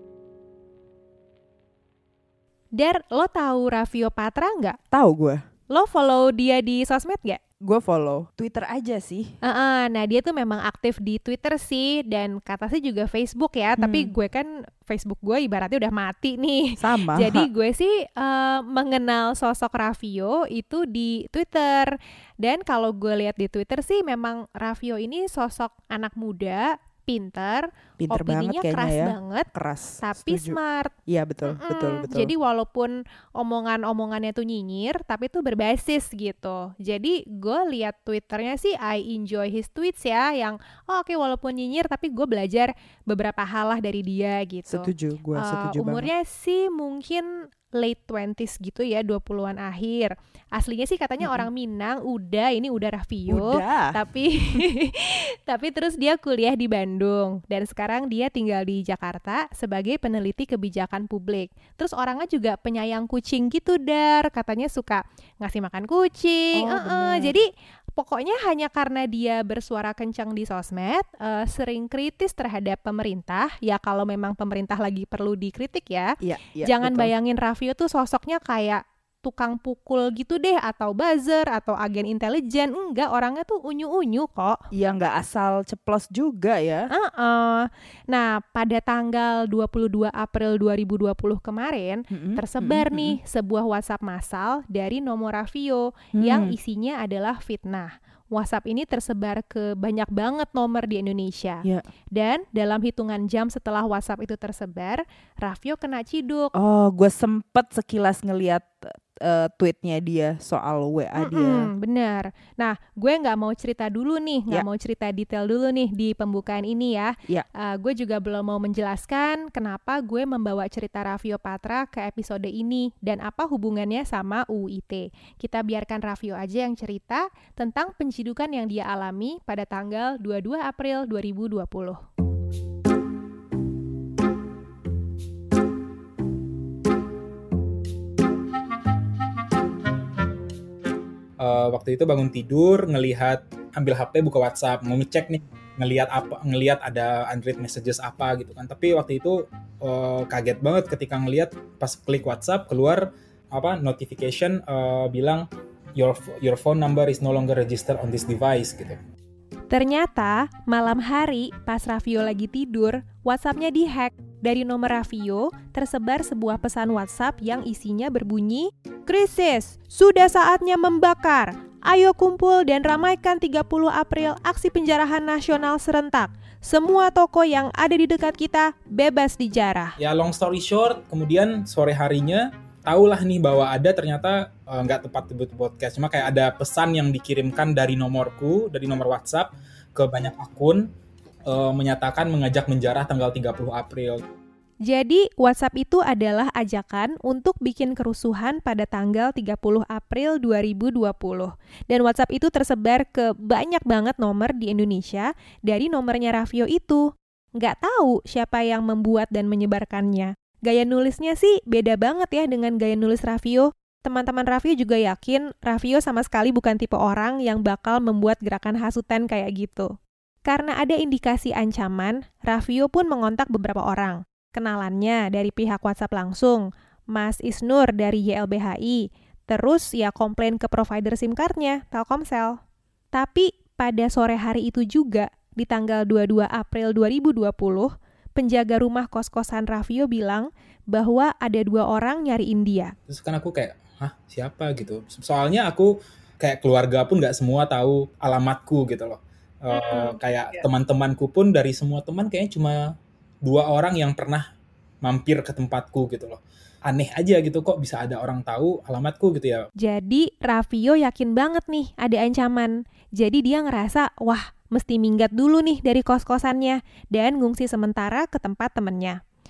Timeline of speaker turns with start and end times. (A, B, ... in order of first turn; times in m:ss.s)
0:02.8-0:04.8 A
0:04.9-0:05.4 B
0:05.7-0:07.4 A
0:07.6-0:09.3 B
0:09.4-0:29.5 A
0:13.8-0:14.1 B
0:16.8-0:17.5 B
0:28.0-0:32.3 B
0:30.0-0:30.9 A
0:31.5-1:16.1 A
0:44.6-0:46.1 B
0:51.2-0:51.5 B
0:53.3-0:54.0 B
1:06.5-1:07.4 B
1:16.2-1:17.1 B
1:16.6-1:24.6 A
1:24.7-1:26.9 B
1:26.9-1:46.5 A
1:32.1-1:33.2 B
1:36.2-1:36.5 B
1:46.5-1:51.7 B
1:51.2-2:12.0 A
2:21.4-2:35.4 C
2:36.0-2:39.0 C
2:39.7-3:00.0 A
3:00.0-3:10.9 C
3:11.5-3:14.2 C
3:14.9-3:27.0 A
3:27.6-3:39.9 A
3:40.5-3:52.6 A
3:53.1-4:02.9 A
4:03.1-4:14.4 C
4:15.0-4:19.7 C
4:19.8-4:29.2 A